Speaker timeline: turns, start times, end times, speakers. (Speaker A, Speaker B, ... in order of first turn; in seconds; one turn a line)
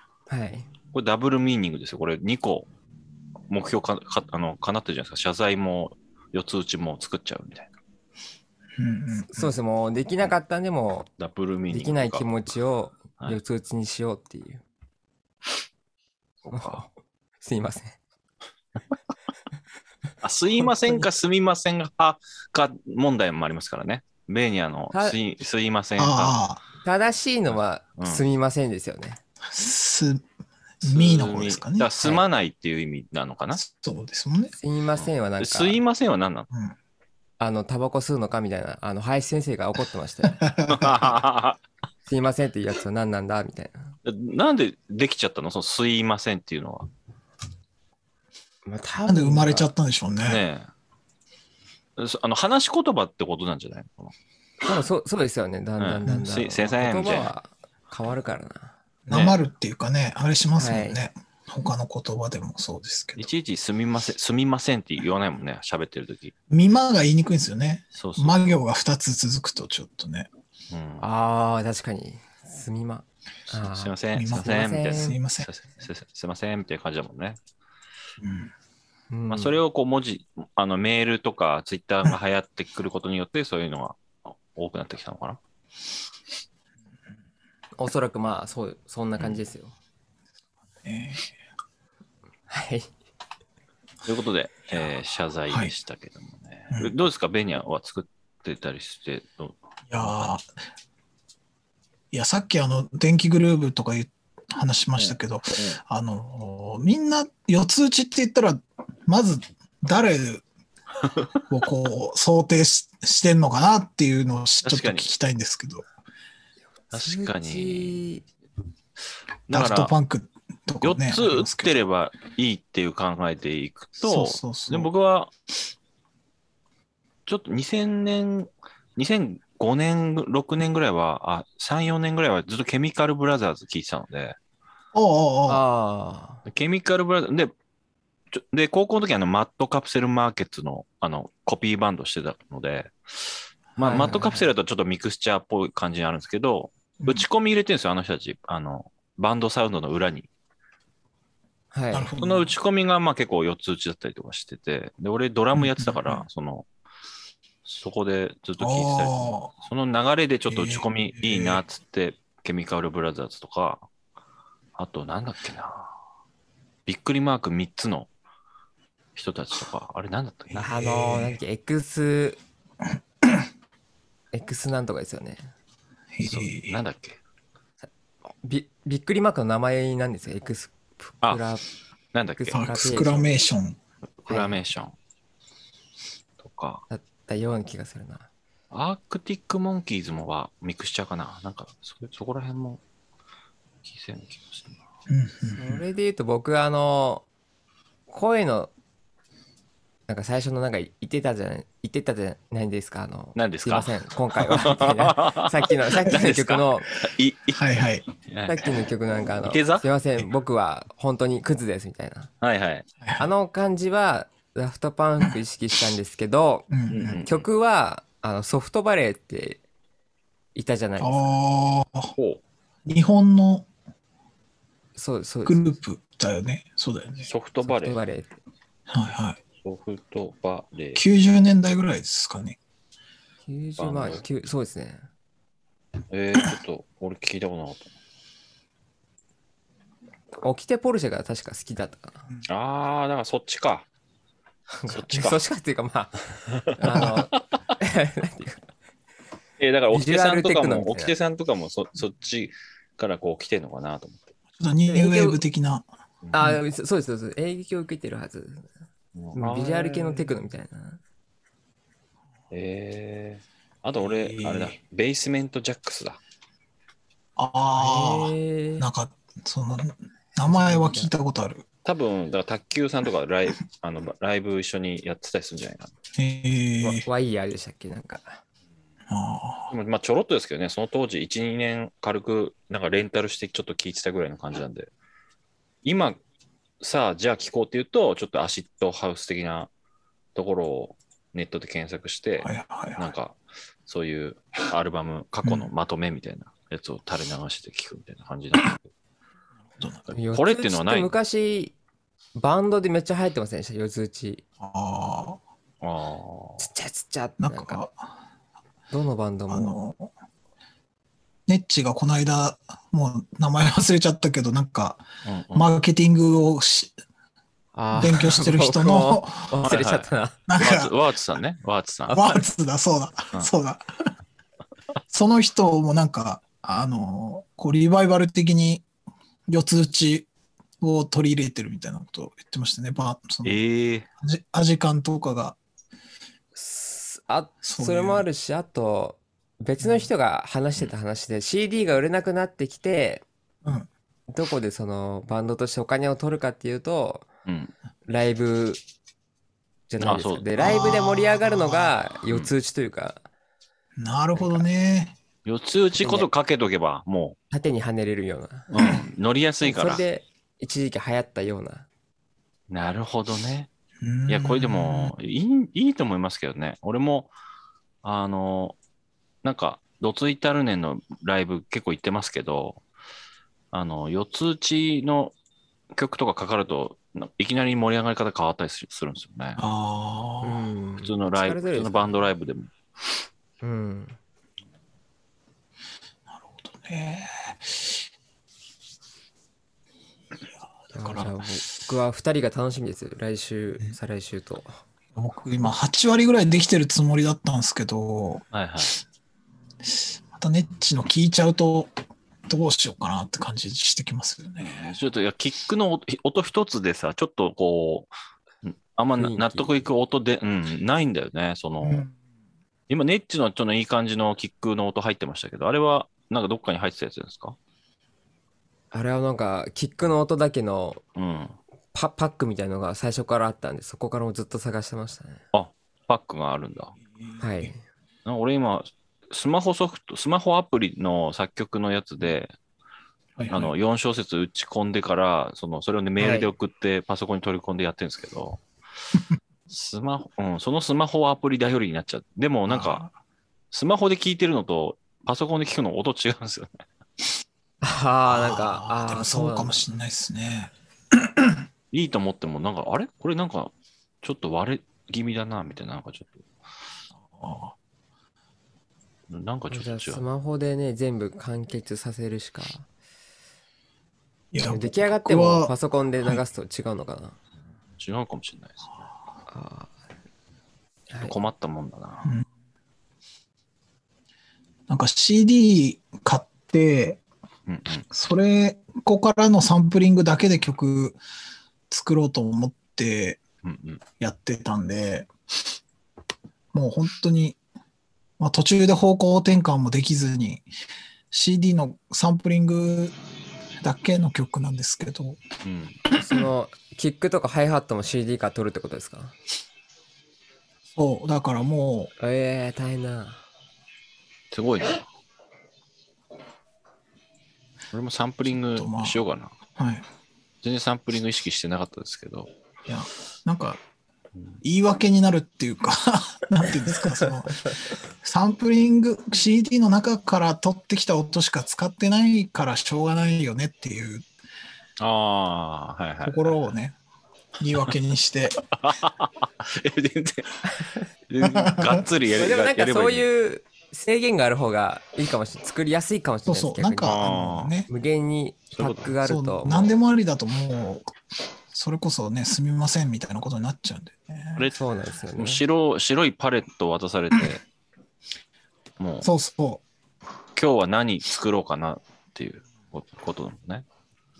Speaker A: 0.3-0.7
Speaker B: 0.9-2.7
Speaker B: 3.5-7.7
Speaker C: 8.8-9.5
Speaker A: 9.2-11.1
Speaker B: 11.2-12.3
Speaker A: 11.7-14.6
Speaker B: 16.4-16.8
Speaker A: 16.5-16.9
Speaker A: 17.4-18.0
Speaker B: 20.2-26.4
Speaker A: 24.9-25.2
Speaker C: 26.0-26.6
Speaker A: 26.8-29.2
Speaker B: 28.0-28.2
Speaker C: 29.5-30.2
Speaker C: 30.8-32.1
Speaker B: 30.8-33.6
Speaker C: 33.5-34.5
Speaker A: 34.6-35.8
Speaker B: 35.0-36.5
Speaker A: 37.4-40.4
Speaker C: 40.4-41.1
Speaker B: 40.7-41.6
Speaker A: 42.1-44.0
Speaker B: 44.0-46.9
Speaker A: 48.7-49.7
Speaker C: 49.1-50.4
Speaker B: 50.2-50.7
Speaker B: 52.0-54.1
Speaker A: 54.7-58.8
Speaker B: 55.8-57.3
Speaker C: 59.1-63.3
Speaker B: 59.1-59.4
Speaker A: 60.6-61.0
Speaker B: 63.2-66.3
Speaker C: 66.5-70.3
Speaker B: 68.0-68.5
Speaker B: 70.7-71.1
Speaker A: 71.0-75.2
Speaker B: 73.5-77.4
Speaker C: 74.2-75.5
Speaker C: 78.2-78.5
Speaker A: 79.1-79.6
Speaker B: 79.3-85.4
Speaker A: 87.8-89.8
Speaker C: 90.8-91.3
Speaker A: 92.5-92.9
Speaker B: 94.0-100.3
Speaker C: 99.9-100.4
Speaker C: 102.1-110.4
Speaker B: 105.0-105.8
Speaker C: 111.5-115.9
Speaker B: 114.6-115.1
Speaker A: 116.9-118.3
Speaker B: 116.9-118.0
Speaker B: 119.5-119.9
Speaker C: 119.5-121.7
Speaker B: 120.8-125.3
Speaker C: 124.0-124.9
Speaker B: 127.3-134.4
Speaker C: 134.9-135.6
Speaker A: 135.5-136.4
Speaker B: 136.5-137.5
Speaker B: 138.3-150.3
Speaker A: 143.8-144.5
Speaker C: 147.0-147.3
Speaker A: 151.7-152.1
Speaker C: 151.9-152.5
Speaker B: 152.2-156.7
Speaker C: 155.6-156.2
Speaker B: 157.7-163.8
Speaker C: 158.6-159.5
Speaker C: 160.5-161.6
Speaker B: 164.8-165.9
Speaker B: 166.9-168.1
Speaker B: 169.2-170.6
Speaker A: 170.6-172.4
Speaker C: 170.6-171.4
Speaker A: 174.3-175.5
Speaker C: 176.1-176.8
Speaker B: 176.3-177.2
Speaker A: 178.4-181.6
Speaker B: 182.1-182.6
Speaker A: 182.4-183.3
Speaker C: 182.5-183.8
Speaker B: 184.2-184.9
Speaker A: 184.3-184.6
Speaker B: 186.4-186.8
Speaker A: 186.9-188.3
Speaker B: 188.7-192.8
Speaker B: 193.8-194.8
Speaker C: 195.1-195.8
Speaker A: 195.6-197.3
Speaker A: 198.1-198.7
Speaker A: 200.1-206.9
Speaker B: 203.4-208.7
Speaker C: 207.5-208.1
Speaker A: 208.5-212.3
Speaker B: 209.4-209.9
Speaker B: 212.4-212.8
Speaker C: 213.0-213.3
Speaker A: 213.2-219.6
Speaker C: 216.7-217.2
Speaker B: 216.9-217.4
Speaker A: 220.6-221.3
Speaker C: 221.0-222.1
Speaker B: 222.1-222.4
Speaker C: 222.9-223.7
Speaker A: 225.0-225.8
Speaker C: 225.4-227.3
Speaker B: 227.2-228.0
Speaker A: 227.6-228.4
Speaker C: 228.9-229.4
Speaker B: 229.6-231.0
Speaker C: 230.9-232.6
Speaker A: 233.5-235.1
Speaker B: 233.8-234.3
Speaker B: 236.1-238.0
Speaker A: 240.4-242.3
Speaker B: 242.5-243.9
Speaker A: 244.7-248.6
Speaker B: 244.9-245.4
Speaker B: 246.9-247.4
Speaker C: 247.0-247.2
Speaker B: 249.6-254.3
Speaker A: 249.9-251.1
Speaker C: 254.6-256.6
Speaker A: 254.9-255.4
Speaker A: 256.3-258.7
Speaker B: 259.1-260.4
Speaker A: 259.3-261.0
Speaker B: 262.5-266.2
Speaker C: 264.0-264.8
Speaker C: 267.4-271.7
Speaker A: 267.8-268.9
Speaker A: 270.4-271.1
Speaker B: 271.9-275.9
Speaker C: 276.2-277.1
Speaker A: 276.8-278.4
Speaker C: 279.1-279.7
Speaker B: 279.7-284.9
Speaker B: 285.8-286.2
Speaker B: 286.8-289.7
Speaker B: 290.4-298.9
Speaker C: 292.4-293.1
Speaker C: 295.4-295.7
Speaker C: 299.7-300.1
Speaker B: 300.1-301.1
Speaker A: 300.2-301.8
Speaker A: 302.4-304.4
Speaker C: 304.6-305.4
Speaker B: 305.8-306.6
Speaker A: 306.6-307.8
Speaker C: 307.4-308.1
Speaker A: 308.9-309.8
Speaker C: 309.5-310.1
Speaker C: 311.5-316.9
Speaker B: 315.2-315.7
Speaker A: 317.8-320.4
Speaker C: 317.9-319.7
Speaker B: 319.7-322.1
Speaker C: 320.5-320.9
Speaker A: 322.1-322.4
Speaker C: 322.1-324.1
Speaker C: 325.1-328.9
Speaker C: 329.5-330.3
Speaker C: 330.8-333.6
Speaker B: 333.4-334.1
Speaker C: 334.2-335.6
Speaker A: 336.6-343.2
Speaker C: 337.6-338.3
Speaker C: 339.8-340.1
Speaker A: 344.3-347.3
Speaker B: 347.5-347.7
Speaker A: 348.1-348.8
Speaker A: 349.9-353.2
Speaker B: 350.0-350.5
Speaker C: 350.6-352.0
Speaker C: 354.0-355.2
Speaker A: 354.4-354.6
Speaker B: 355.4-357.4
Speaker A: 356.0-356.3
Speaker A: 357.5-358.7
Speaker B: 358.7-360.0
Speaker C: 358.8-359.0
Speaker A: 359.6-361.9
Speaker B: 362.7-363.7
Speaker C: 364.0-365.1
Speaker B: 364.3-367.3
Speaker B: 368.0-368.8
Speaker B: 369.4-372.8
Speaker B: 373.7-375.3
Speaker B: 375.9-379.6
Speaker C: 379.6-380.7
Speaker A: 380.4-382.2
Speaker B: 381.0-382.7
Speaker A: 383.6-384.2
Speaker C: 386.3-388.0
Speaker C: 390.9-391.4
Speaker A: 390.9-394.8
Speaker C: 395.1-398.5
Speaker B: 398.5-399.0
Speaker C: 400.3-401.9
Speaker C: 402.5-405.0
Speaker B: 404.6-408.1
Speaker B: 408.6-412.1
Speaker A: 409.2-409.8
Speaker C: 411.8-412.2
Speaker B: 412.9-417.6
Speaker A: 418.9-421.0
Speaker B: 421.2-421.6
Speaker A: 421.9-425.4
Speaker B: 425.5-427.0
Speaker C: 427.1-427.7
Speaker A: 427.4-427.8
Speaker B: 428.2-432.5
Speaker C: 433.4-433.7
Speaker B: 433.5-438.6
Speaker A: 436.2-436.5
Speaker B: 439.7-443.1
Speaker C: 442.7-443.1
Speaker B: 443.7-446.8
Speaker A: 447.8-449.8
Speaker C: 448.3-451.6
Speaker B: 451.9-456.5
Speaker C: 457.3-457.8
Speaker B: 459.3-460.2
Speaker A: 459.7-462.9
Speaker C: 464.5-466.4
Speaker A: 464.7-467.4
Speaker B: 468.0-469.1
Speaker A: 469.5-469.9
Speaker A: 471.1-471.4
Speaker B: 471.2-472.3
Speaker C: 474.9-477.2
Speaker B: 477.7-478.1
Speaker C: 478.1-481.2
Speaker C: 481.9-483.4
Speaker B: 483.6-484.0
Speaker C: 484.2-485.3
Speaker C: 486.7-487.6
Speaker C: 488.4-490.7
Speaker C: 491.3-493.2
Speaker C: 493.8-495.4
Speaker B: 495.6-496.0
Speaker A: 496.2-499.4
Speaker C: 500.9-502.1
Speaker A: 502.2-503.4
Speaker B: 504.5-505.1
Speaker B: 507.9-509.5
Speaker C: 508.5-509.2
Speaker C: 509.8-510.1
Speaker B: 510.6-512.5
Speaker C: 512.9-513.8
Speaker C: 514.6-524.3
Speaker B: 525.0-526.6
Speaker C: 526.2-527.0
Speaker C: 527.6-528.7
Speaker B: 528.7-530.7
Speaker B: 531.3-533.3
Speaker C: 531.4-532.1
Speaker A: 532.4-537.2
Speaker C: 536.5-537.9
Speaker B: 537.0-537.7
Speaker A: 537.9-539.9
Speaker B: 538.8-539.1
Speaker C: 539.2-541.1
Speaker C: 541.7-544.7
Speaker A: 544.7-545.6
Speaker B: 545.4-547.6
Speaker B: 549.0-549.3
Speaker C: 549.2-549.8
Speaker B: 550.5-553.9